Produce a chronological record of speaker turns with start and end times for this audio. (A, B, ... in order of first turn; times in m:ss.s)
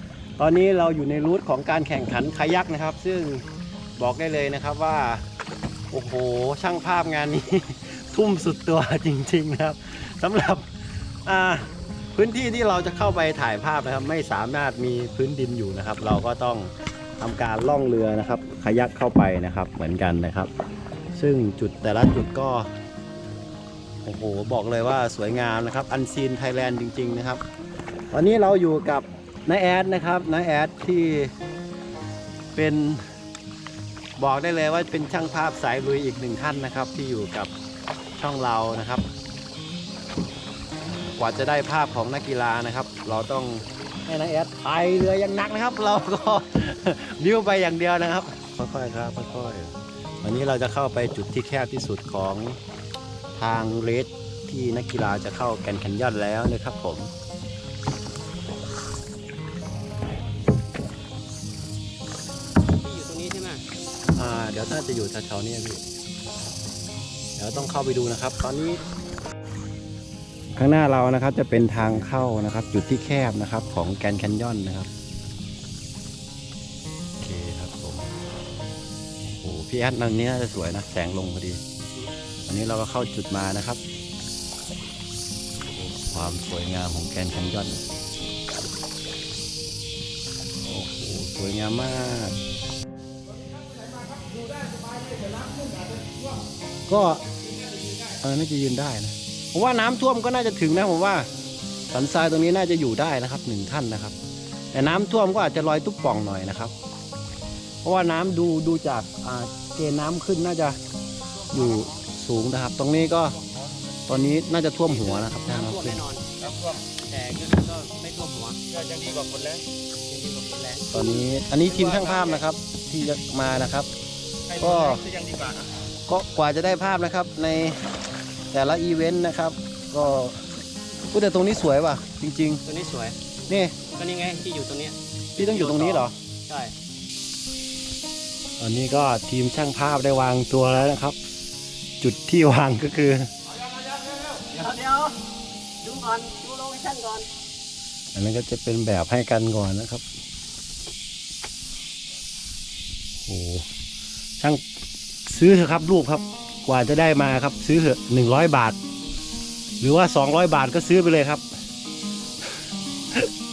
0:00.4-0:03.4 A
0:04.0-0:05.2 A
0:05.9-0:10.7 A
0:11.2-0:20.5 A
0:21.2-0:22.7 A
0:24.0-0:27.4 A
0:28.1-0:31.3 A
0:32.5-0:33.0 A
0:34.2-0:37.5 A
0:38.2-0:39.0 A
0:41.2-0:52.6 A
0:53.4-0:57.1 A
1:02.8-1:03.6 B
1:04.2-1:05.8 A
1:07.4-1:08.8 A
1:10.6-1:14.9 A
1:17.2-1:18.1 A
1:19.2-1:21.6 A
1:22.4-1:23.8 A
1:25.7-1:27.8 A
1:30.6-1:32.4 A
1:33.5-1:36.4 C
1:36.9-1:37.4 A
1:38.0-1:41.3 A
1:41.9-1:44.2 A
1:44.7-1:46.7 A
1:47.8-1:50.8 A
1:51.5-1:53.4 A
1:54.1-1:56.0 A
1:54.9-1:56.3 B
1:56.9-1:58.7 B
1:58.7-1:59.6 C
2:00.1-2:01.3 B
2:00.9-2:03.9 A
2:04.5-2:05.1 A
2:05.0-2:05.6 C
2:06.1-2:07.8 A
2:08.5-2:12.6 A
2:12.7-2:13.2 B
2:13.5-2:13.8 A
2:13.8-2:16.7 B
2:15.4-2:16.2 A
2:18.6-2:21.2 A
2:22.0-2:23.3 A
2:23.6-2:25.2 B
2:25.8-2:27.3 B
2:28.1-2:30.0 A
2:33.3-2:33.7 A
2:35.3-2:38.8 A
2:39.8-2:41.4 A